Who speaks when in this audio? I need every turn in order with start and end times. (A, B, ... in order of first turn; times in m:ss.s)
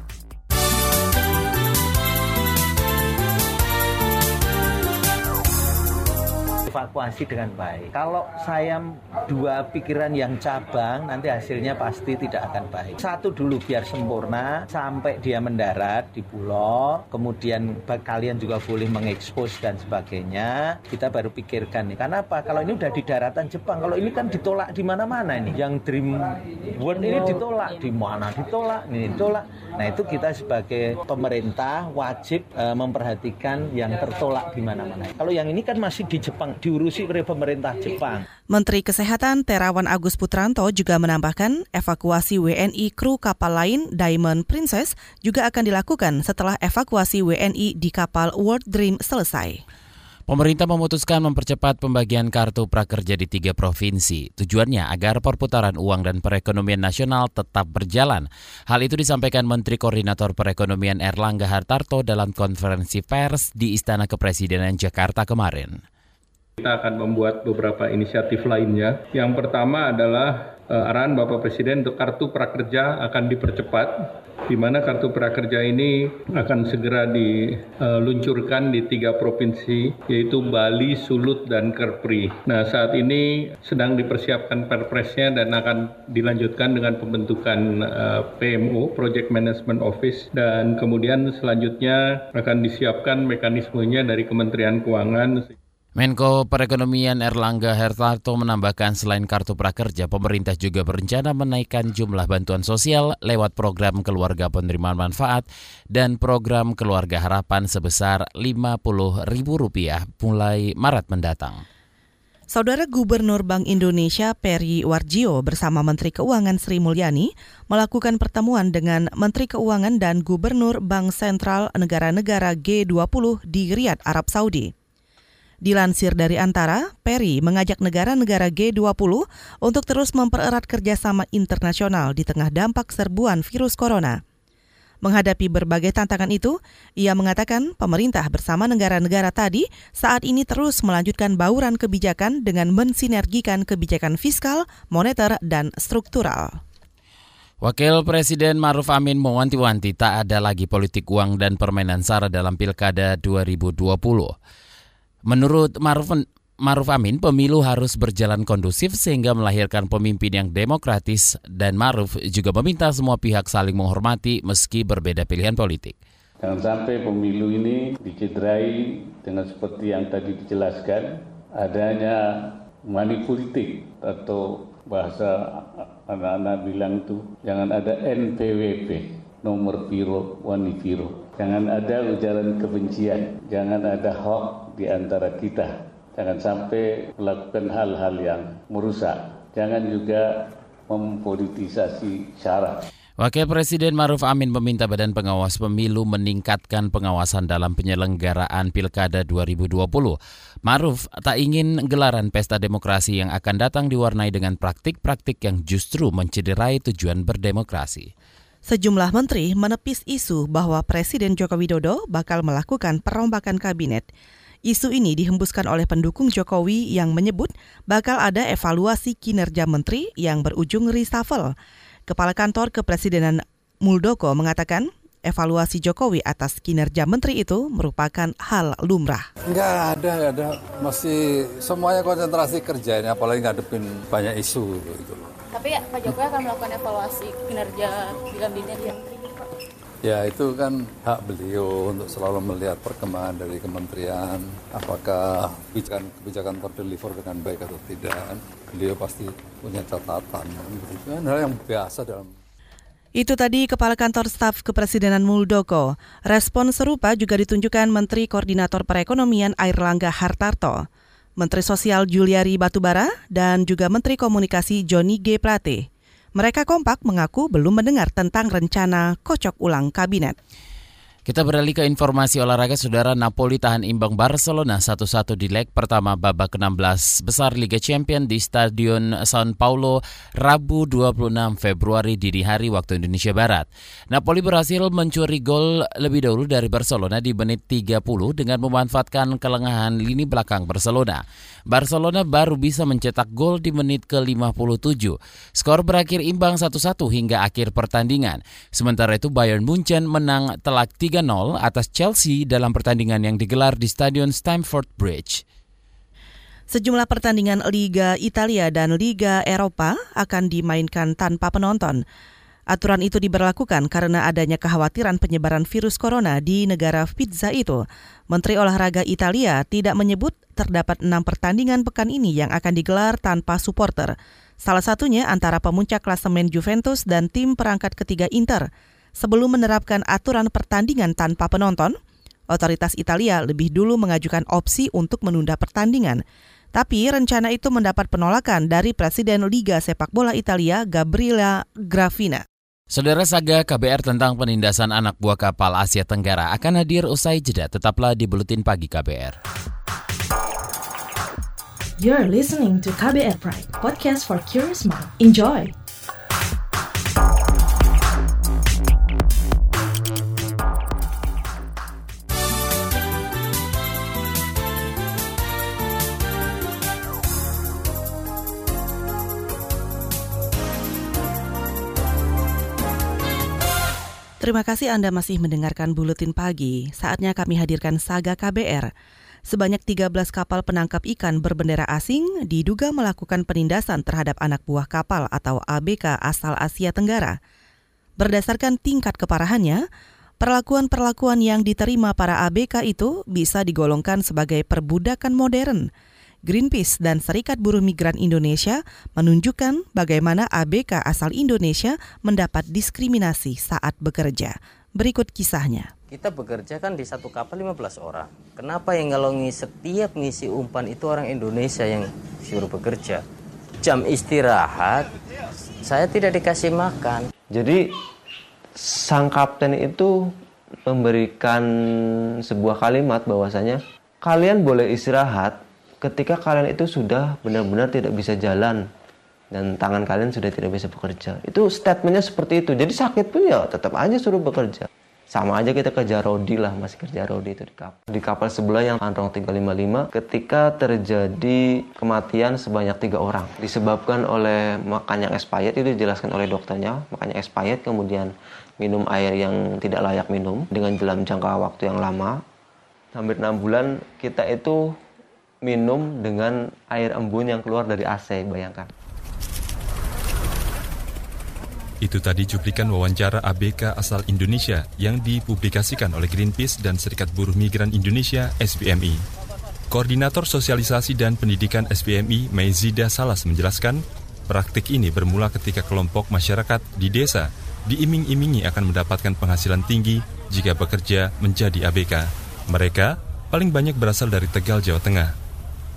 0:06.7-0:38.2 A
0:38.5-0:49.6 B
0:50.3-1:05.8 C
1:06.6-1:35.5 D
1:36.0-1:51.6 C
1:52.5-2:04.7 B
2:05.6-2:14.2 B
2:15.0-2:26.6 B
2:27.6-2:34.3 C
2:35.3-2:46.0 C
2:46.4-3:12.8 E
3:13.2-3:28.1 C
3:28.6-3:34.1 B
3:34.6-3:41.5 B
3:42.1-3:49.3 B
3:49.5-3:55.3 F
3:55.5-3:59.5 G
4:00.0-4:12.3 F
4:13.2-4:20.8 B
4:21.4-4:30.4 B
4:31.2-5:05.4 C
5:06.7-5:12.0 B
5:12.7-5:28.7 B
5:29.2-5:31.9 B
5:32.5-5:36.2 B
5:36.7-5:42.4 B
5:42.9-5:49.4 C
5:52.0-5:55.7 H
6:14.4-6:18.9 B
6:19.5-6:27.4 B
6:28.2-6:29.8 B
6:30.4-6:35.9 B
6:36.4-6:45.9 B
6:46.1-6:53.2 I
6:53.8-6:55.1 I
6:55.8-6:57.3 I
6:57.5-6:57.9 J
6:58.8-7:00.3 J
7:00.9-7:08.8 J
7:09.5-7:32.4 J
7:33.1-7:35.0 J
7:35.6-7:38.9 J
7:42.0-7:49.2 K
7:49.9-8:05.3 K